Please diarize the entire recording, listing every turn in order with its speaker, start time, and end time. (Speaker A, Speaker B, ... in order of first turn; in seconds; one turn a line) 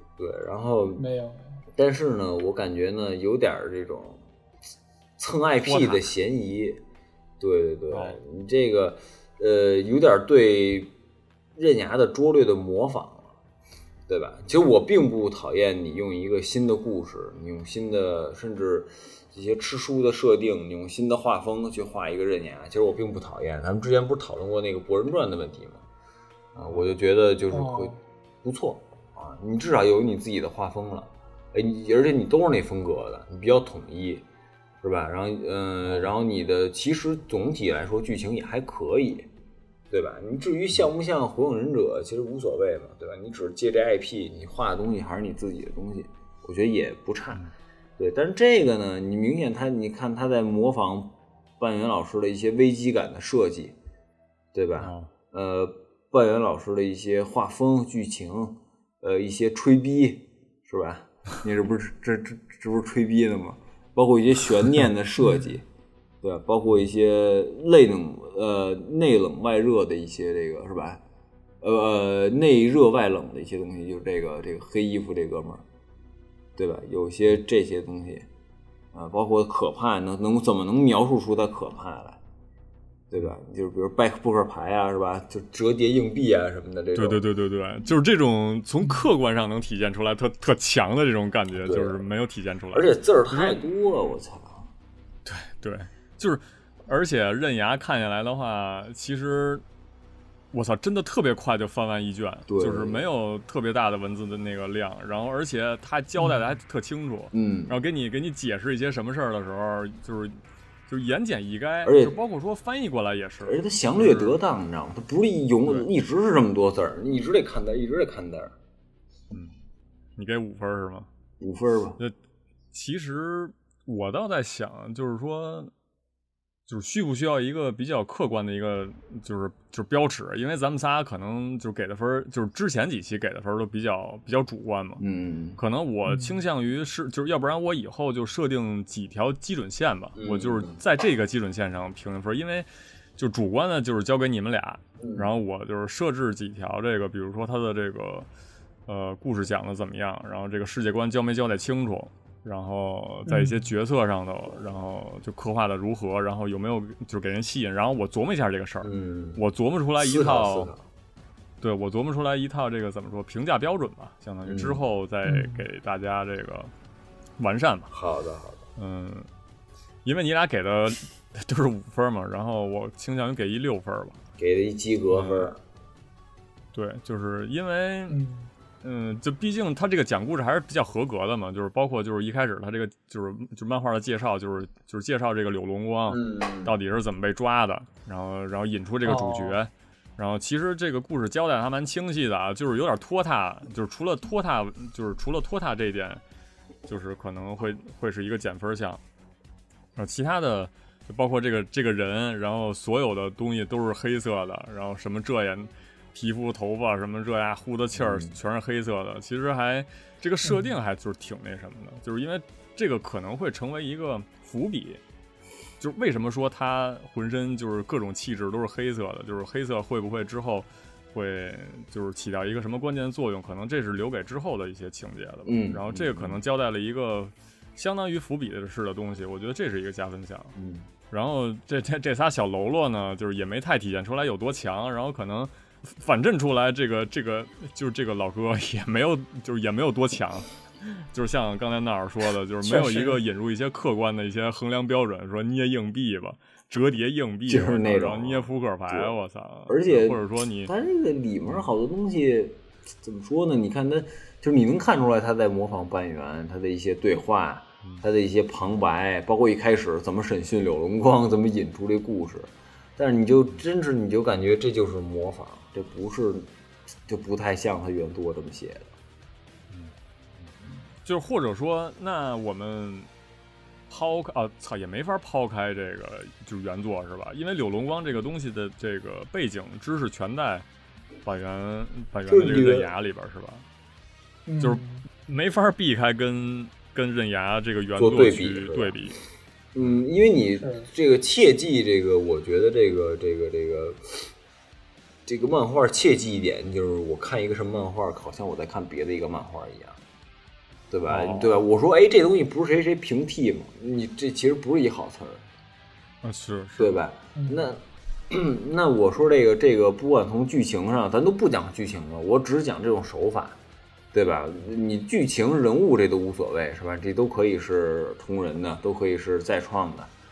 Speaker A: 0.2-1.1
Speaker B: 1.0-1.6
Speaker A: 1.7-4.2
Speaker A: 5.2-6.8
Speaker C: 5.6-6.0
Speaker A: 7.4-10.9
Speaker C: 7.9-8.2
Speaker A: 11.5-13.3
Speaker A: 14.1-25.8
Speaker A: 26.5-34.2
Speaker B: 27.5-28.0
Speaker A: 34.8-39.3
Speaker C: 35.9-36.1
Speaker A: 39.9-47.4
Speaker A: 48.0-53.7
Speaker A: 54.5-65.7
Speaker C: 54.8-55.1
Speaker B: 65.2-65.5
Speaker A: 66.2-71.0
Speaker A: 71.6-75.6
Speaker A: 76.5-78.3
Speaker A: 78.9-82.2
Speaker A: 83.1-87.2
Speaker C: 86.9-93.6
Speaker A: 91.6-92.0
Speaker A: 92.7-94.7
Speaker C: 95.2-99.6
Speaker C: 100.5-114.4
Speaker A: 102.5-103.0
Speaker A: 107.3-107.7
Speaker A: 111.8-112.2
Speaker A: 113.4-118.5
Speaker C: 120.2-121.1
Speaker A: 121.4-122.0
Speaker C: 122.7-125.7
Speaker C: 126.7-135.0
Speaker A: 135.0-135.6
Speaker C: 135.6-148.3
Speaker B: 136.1-136.4
Speaker A: 140.2-140.8
Speaker A: 145.0-145.3
Speaker C: 148.9-160.7
Speaker B: 153.3-153.7
Speaker A: 158.8-159.4
Speaker A: 160.0-160.8
Speaker C: 161.6-166.7
Speaker A: 164.4-164.8
Speaker B: 165.2-165.7
Speaker C: 167.4-167.9
Speaker A: 167.9-168.7
Speaker C: 168.8-169.3
Speaker C: 170.0-174.2
Speaker A: 174.4-175.6
Speaker C: 175.1-175.5
Speaker C: 176.7-178.2
Speaker B: 178.1-178.5
Speaker C: 178.8-196.2
Speaker A: 186.1-186.7
Speaker B: 189.0-189.6
Speaker C: 196.9-199.0
Speaker C: 199.9-215.0
Speaker A: 207.9-208.4
Speaker B: 210.4-210.7
Speaker C: 215.8-230.5
Speaker A: 225.4-226.4
Speaker A: 230.5-230.9
Speaker C: 231.1-250.7
Speaker B: 242.6-243.1
Speaker A: 247.5-249.1
Speaker A: 249.7-266.5
Speaker A: 267.1-268.9
Speaker C: 269.7-270.5
Speaker C: 271.0-273.1
Speaker C: 273.9-280.6
Speaker C: 281.2-283.6
Speaker A: 282.3-282.9
Speaker B: 284.4-285.0
Speaker C: 284.6-289.2
Speaker A: 287.9-289.0
Speaker A: 289.7-294.3
Speaker B: 290.6-290.9
Speaker A: 295.2-300.0
Speaker A: 300.9-305.4
Speaker C: 301.1-301.6
Speaker C: 306.2-306.9
Speaker A: 306.8-313.6
Speaker B: 307.3-307.7
Speaker A: 314.1-320.1